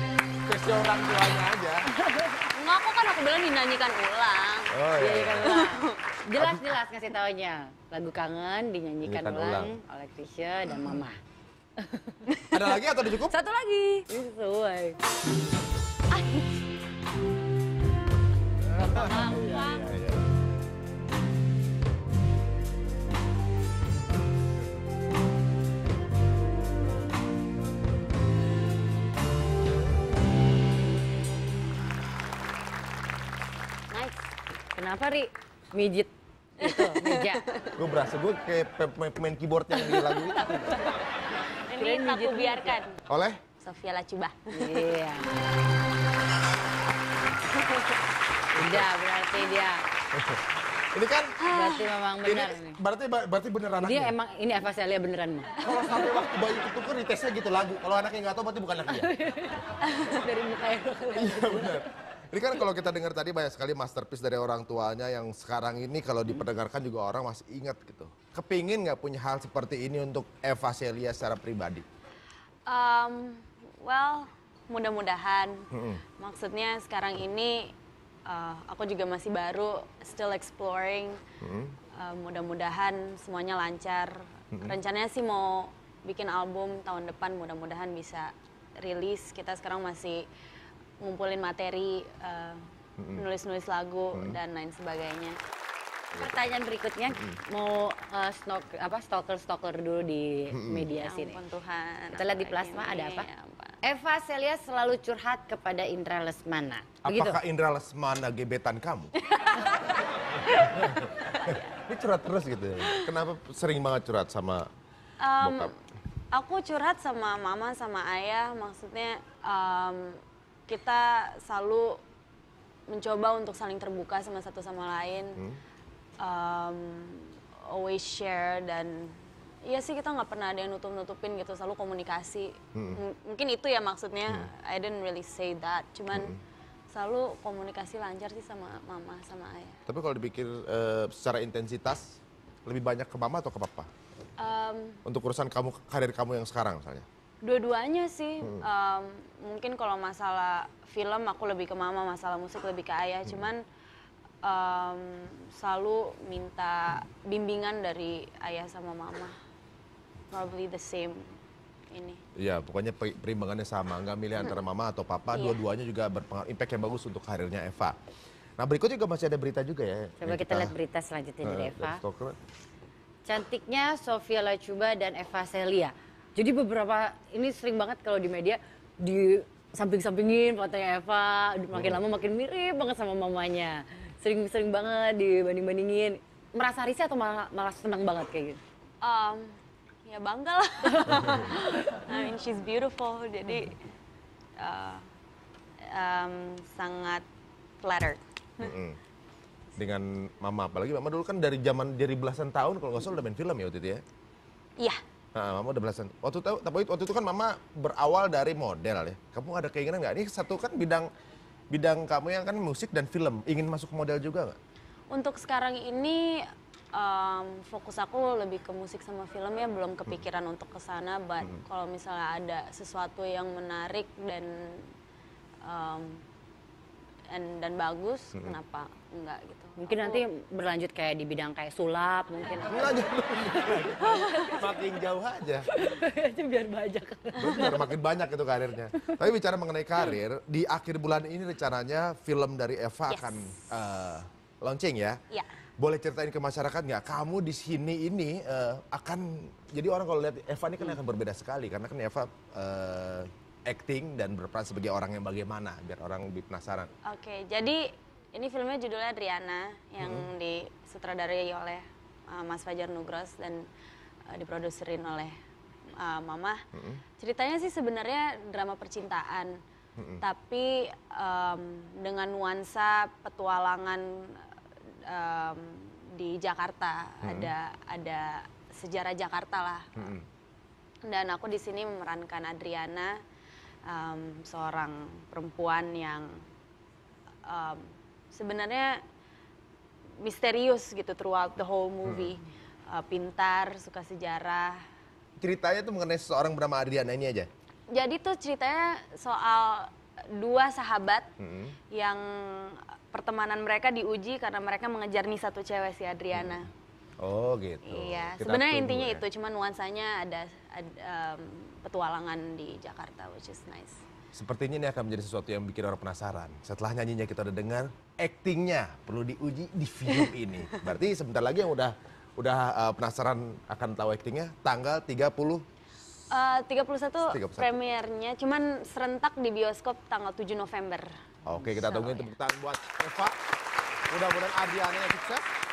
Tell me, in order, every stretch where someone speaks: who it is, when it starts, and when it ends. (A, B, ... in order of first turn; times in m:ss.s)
0:00.3-0:01.9 A
0:02.0-0:02.4 B
0:02.5-0:04.8 C
0:04.7-0:05.6 A
0:05.0-0:11.2 B
0:05.4-0:06.0 C
0:06.4-0:06.8 A
0:09.0-0:09.8 A
0:11.9-0:12.2 B
0:12.5-0:13.3 A
0:13.3-0:15.0 B
0:16.1-0:16.5 C
0:18.7-0:19.9 B
0:18.8-0:20.2 A
0:33.9-0:34.3 C
0:34.8-0:37.4 B
0:36.6-0:37.8 C
0:37.8-0:40.7 A
0:39.8-0:43.0 C
0:41.8-0:42.8 B
0:43.1-0:43.4 A
0:43.6-0:44.9 C
0:44.5-0:45.3 B
0:47.5-0:48.0 C
0:48.5-0:49.8 B
0:48.6-0:48.9 A
0:50.1-0:51.4 A
0:51.4-0:51.9 C
0:51.5-0:52.8 B
0:52.2-0:54.2 A
0:53.8-0:55.6 B
0:55.6-0:59.1 A
0:58.9-1:01.9 B
0:59.9-1:00.2 C
1:01.1-1:11.8 A
1:12.7-1:17.8 C
1:15.7-1:16.0 A
1:18.3-1:21.2 C
1:21.4-1:21.8 A
1:21.9-1:30.3 C
1:31.0-1:32.6 C
1:33.0-1:33.3 A
1:33.2-1:35.4 C
1:36.1-1:41.4 B
1:40.5-1:40.9 A
1:40.9-1:43.8 C
1:42.2-1:43.3 B
1:43.8-1:47.4 B
1:47.0-1:49.1 A
1:49.3-1:49.9 C
1:50.6-1:54.7 A
1:51.2-1:51.8 C
1:55.2-1:55.7 C
1:55.4-1:55.7 A
1:56.3-2:02.0 C
2:02.9-2:05.4 C
2:06.2-2:16.4 C
2:12.8-2:13.0 A
2:16.1-2:16.4 A
2:16.9-2:19.8 C
2:19.9-2:23.9 A
2:24.4-2:25.0 C
2:25.1-2:27.1 A
2:27.4-2:33.6 C
2:34.4-2:39.3 C
2:40.3-2:41.4 C
2:41.9-2:42.2 C
2:42.4-2:48.0 A
2:45.3-2:45.6 C
2:48.6-2:50.8 A
2:50.2-2:52.0 B
2:51.4-2:52.4 A
2:53.2-3:08.6 B
3:01.7-3:02.0 A
3:09.0-3:09.5 C
3:10.1-3:13.8 C
3:14.6-3:15.0 C
3:15.8-3:17.2 C
3:17.8-3:18.7 C
3:18.6-3:19.0 A
3:19.8-3:24.0 A
3:25.4-3:31.1 A
3:31.7-3:34.6 A
3:35.1-3:44.9 C
3:45.6-3:46.2 C
3:47.3-3:50.2 C
3:49.8-3:54.7 B
3:52.6-3:55.7 A
3:54.0-3:54.7 C
3:55.7-3:57.9 B
3:57.4-4:05.2 A
4:03.1-4:03.7 C
4:05.8-4:16.9 A
4:17.1-4:23.7 C
4:20.0-4:20.3 A
4:24.3-4:25.3 C
4:26.0-4:26.6 C
4:26.8-4:27.0 A
4:27.2-4:29.6 C
4:30.0-4:30.2 A
4:30.2-4:34.5 C
4:35.1-4:40.2 C
4:37.2-4:37.5 A
4:40.0-4:40.2 A
4:41.1-4:43.1 C
4:43.9-4:46.4 C
4:47.5-4:49.0 C
4:50.2-4:54.8 C
4:52.0-4:52.4 A
4:55.4-4:57.5 A
4:57.9-5:01.3 C
5:01.4-5:01.8 A
5:01.9-5:06.7 C
5:07.2-5:09.2 A
5:07.8-5:14.0 C
5:14.3-5:25.6 A
5:26.3-5:32.3 C
5:27.3-5:27.7 A
5:31.5-5:33.4 A
5:34.1-5:35.4 A